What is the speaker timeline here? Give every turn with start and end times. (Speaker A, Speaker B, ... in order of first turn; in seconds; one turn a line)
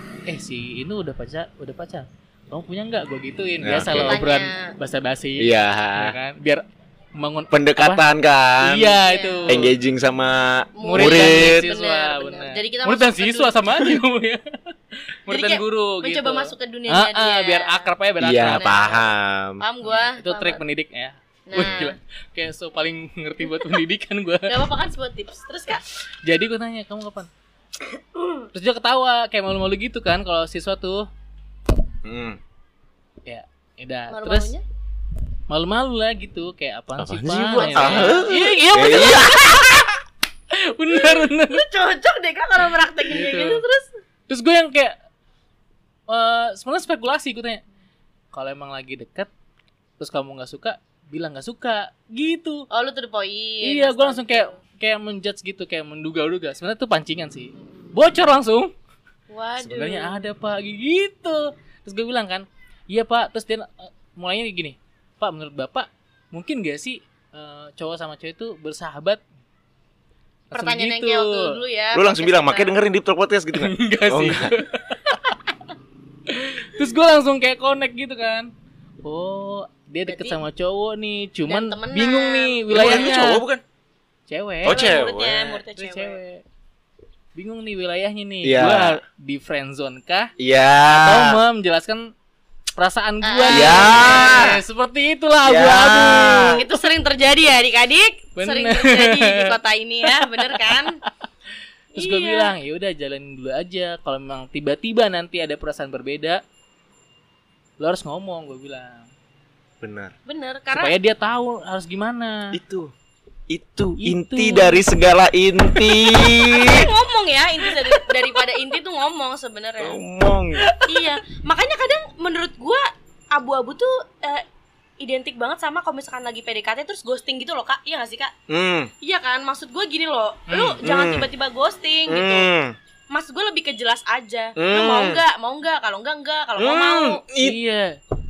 Speaker A: 0.3-8.1
Speaker B: 3.6-4.2
Speaker C: 3.7-4.7
Speaker B: 5.4-6.2
Speaker B: 7.5-11.6
Speaker A: 8.6-9.7
Speaker C: 9.0-9.7
Speaker C: 10.8-13.6
Speaker A: 10.8-18.8
Speaker C: 15.3-17.9
Speaker B: 18.2-19.6
Speaker C: 18.4-20.6
Speaker A: 19.9-24.6
Speaker C: 21.5-22.0
Speaker C: 24.5-25.8
Speaker A: 26.2-27.3
Speaker C: 28.2-28.4
Speaker A: 28.5-31.1
Speaker B: 32.0-32.4
Speaker A: 33.3-34.5
Speaker C: 34.1-34.6
Speaker A: 35.5-39.9
Speaker B: 37.0-39.4
Speaker C: 37.5-39.7
Speaker A: 40.5-41.6
Speaker C: 40.9-44.0
Speaker A: 43.1-43.6
Speaker A: 44.3-45.0
Speaker A: 46.1-47.6
Speaker A: 48.3-49.3
Speaker A: 50.0-52.7
Speaker C: 52.7-54.6
Speaker A: 53.6-58.7
Speaker C: 57.6-57.9
Speaker C: 59.3-60.3
Speaker A: 59.6-69.2
Speaker A: 70.5-71.6
Speaker C: 70.5-72.8
Speaker B: 71.9-74.6
Speaker A: 73.5-75.5
Speaker A: 76.3-78.5
Speaker A: 79.0-83.4
Speaker C: 80.1-80.4
Speaker C: 81.5-83.2
Speaker B: 82.7-83.6
Speaker A: 84.3-86.4
Speaker B: 84.7-85.4
Speaker C: 84.7-86.2
Speaker A: 87.3-90.3
Speaker B: 88.4-89.0
Speaker B: 90.4-91.4
Speaker A: 90.9-92.1
Speaker A: 92.7-96.6
Speaker C: 93.2-94.6
Speaker B: 93.5-94.6
Speaker B: 95.4-96.6
Speaker C: 96.4-101.0
Speaker A: 98.4-99.5
Speaker A: 100.1-101.0
Speaker C: 102.0-102.6
Speaker A: 102.0-106.4
Speaker A: 107.8-109.1
Speaker B: 109.8-110.1
Speaker C: 110.3-110.9
Speaker A: 110.8-112.6
Speaker B: 112.5-112.9
Speaker B: 113.5-116.9
Speaker A: 114.0-114.8
Speaker C: 115.8-120.0
Speaker B: 119.8-120.7
Speaker C: 120.9-124.4
Speaker C: 125.0-128.3
Speaker B: 128.5-128.9
Speaker C: 129.0-132.5
Speaker A: 130.5-130.8
Speaker B: 130.8-131.3
Speaker B: 132.1-132.8
Speaker C: 133.1-137.2
Speaker B: 134.6-135.2
Speaker B: 136.6-137.6
Speaker A: 137.4-138.0